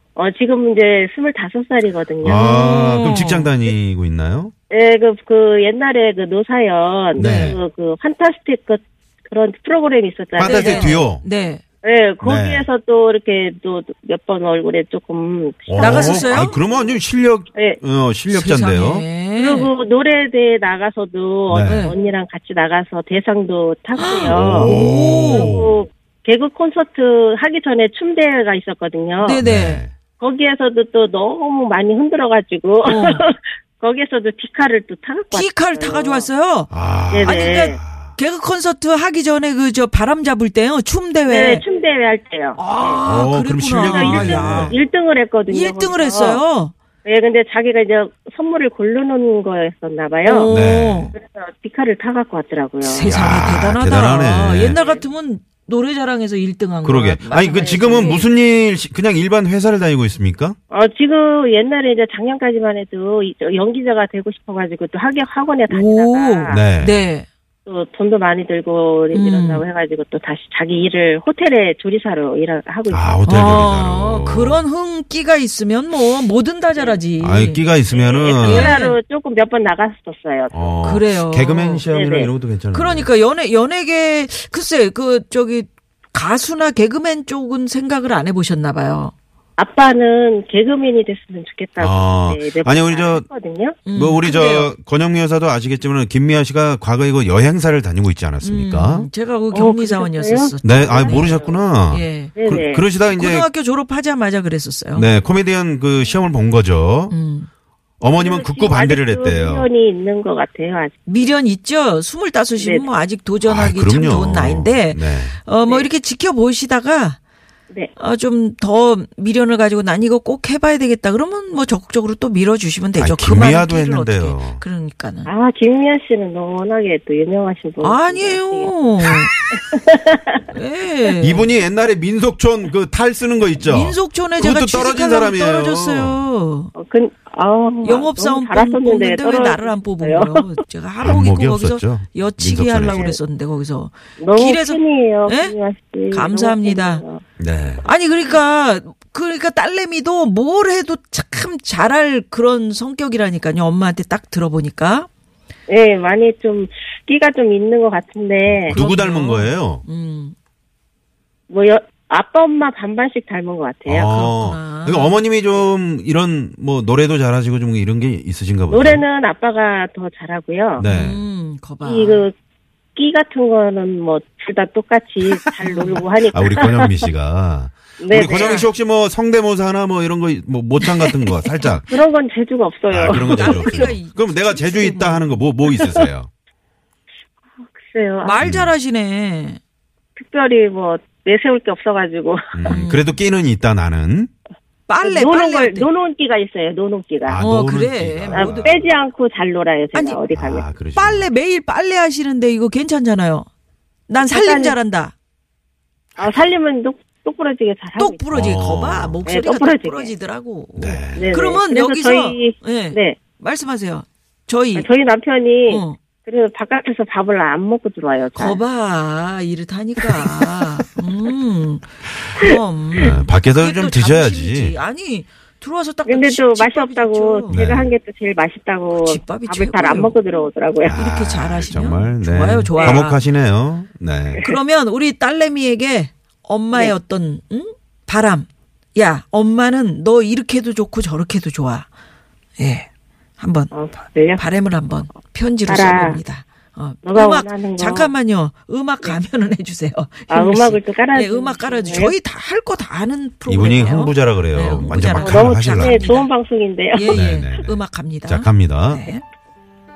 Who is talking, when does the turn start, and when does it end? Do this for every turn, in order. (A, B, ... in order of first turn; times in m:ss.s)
0:00.2-0:02.4 A
0:02.2-0:04.5 B
0:02.2-0:03.5 C
0:04.7-0:11.0 A
0:07.2-0:07.6 C
0:07.2-0:07.6 B
0:10.4-0:11.2 B
0:10.4-0:11.6 C
0:11.8-0:16.9 A
0:12.2-0:12.7 B
0:15.7-0:19.1 B
0:15.8-0:16.6 C
0:18.3-0:19.7 C
0:19.4-0:29.4 A
0:21.5-0:21.9 B
0:21.6-0:22.0 C
0:23.9-0:25.6 C
0:24.0-0:25.8 B
0:29.2-0:29.8 C
0:29.4-0:29.9 B
0:30.2-0:36.2 A
0:32.8-0:33.2 C
0:35.3-0:41.6 C
0:36.7-0:38.2 B
0:37.1-0:37.8 A
0:41.2-0:43.0 A
0:42.6-0:44.8 C
0:43.0-0:44.8 B
0:43.8-0:46.4 A
0:45.5-0:46.7 C
0:47.0-0:50.5 A
0:50.2-0:51.1 C
0:50.4-0:51.1 B
0:51.1-0:53.2 A
0:52.8-0:58.2 C
0:53.0-0:54.8 B
0:54.7-0:55.0 A
0:56.8-1:00.6 B
0:57.4-0:58.2 A
1:00.7-1:06.6 A
1:05.7-1:07.3 C
1:06.5-1:07.0 B
1:07.6-1:13.6 A
1:09.1-1:09.6 C
1:12.9-1:14.6 B
1:13.2-1:17.6 C
1:17.2-1:18.8 B
1:17.9-1:20.8 A
1:18.4-1:19.0 C
1:20.5-1:23.1 B
1:20.8-1:21.8 C
1:21.9-1:22.3 A
1:22.7-1:29.1 C
1:29.6-1:33.8 A
1:31.8-1:33.2 B
1:33.9-1:34.7 C
1:33.9-1:39.1 B
1:38.4-1:42.3 C
1:39.5-1:41.6 A
1:40.6-1:43.5 B
1:42.4-1:42.8 A
1:43.1-1:45.1 C
1:45.0-1:47.1 B
1:47.1-1:47.5 C
1:48.0-1:49.7 B
1:48.2-1:51.0 A
1:51.0-1:57.2 C
1:52.6-1:52.9 A
1:53.4-1:55.4 B
1:58.0-2:05.3 C
2:03.0-2:04.6 B
2:05.2-2:10.4 A
2:07.8-2:09.3 C
2:10.5-2:11.5 C
2:11.2-2:16.2 B
2:13.6-2:16.7 C
2:16.8-2:20.4 A
2:17.8-2:25.5 C
2:21.0-2:23.1 B
2:22.8-2:23.2 A
2:24.2-2:27.2 A
2:26.1-2:27.0 C
2:27.4-2:27.9 B
2:27.8-2:35.1 C
2:35.7-2:38.8 A
2:38.5-2:39.8 B
2:38.7-2:40.4 C
2:41.5-2:44.1 A
2:43.9-2:49.0 B
2:44.0-2:45.2 C
2:48.7-2:50.9 A
2:50.8-2:51.2 B
2:50.8-2:52.2 C
2:51.8-2:52.3 A
2:53.0-2:57.0 A
2:55.6-2:56.0 C
2:56.3-3:01.9 B
2:58.0-2:58.7 A
2:58.1-2:58.7 C
3:01.9-3:04.0 A
3:02.9-3:06.3 B
3:03.1-3:05.3 C
3:05.8-3:06.0 A
3:07.7-3:08.4 A
3:08.2-3:09.6 C
3:08.4-3:08.7 B
3:10.2-3:12.8 A
3:12.5-3:14.3 B
3:12.6-3:13.1 C
3:14.9-3:15.9 C
3:15.0-3:17.4 A
3:17.3-3:18.9 B
3:17.4-3:18.7 C
3:18.3-3:20.6 A
3:19.9-3:20.2 C
3:20.3-3:21.3 B
3:21.0-3:23.5 C
3:24.1-3:25.1 C
3:24.2-3:24.8 A
3:26.2-3:28.6 A
3:28.0-3:34.9 C
3:28.3-3:29.2 B
3:29.2-3:30.1 A
3:30.8-3:31.3 B
3:31.1-3:33.2 A
3:34.8-3:38.6 A
3:35.7-3:36.0 C
3:38.4-3:47.7 C
3:43.0-3:44.8 B
3:46.0-3:51.0 A
3:47.5-3:47.9 B
3:48.9-3:50.2 C
3:50.8-3:54.4 B
3:50.9-3:53.2 C
3:52.8-3:53.0 A
3:54.4-4:01.9 C
4:02.6-4:02.9 C
4:03.4-4:03.7 C
4:03.7-4:04.4 A
4:04.4-4:16.3 C
4:05.7-4:06.2 A
4:07.0-4:08.1 A
4:10.3-4:12.1 A
4:13.5-4:16.1 B
4:15.2-4:17.2 A
4:16.9-4:19.2 C
4:17.1-4:19.1 B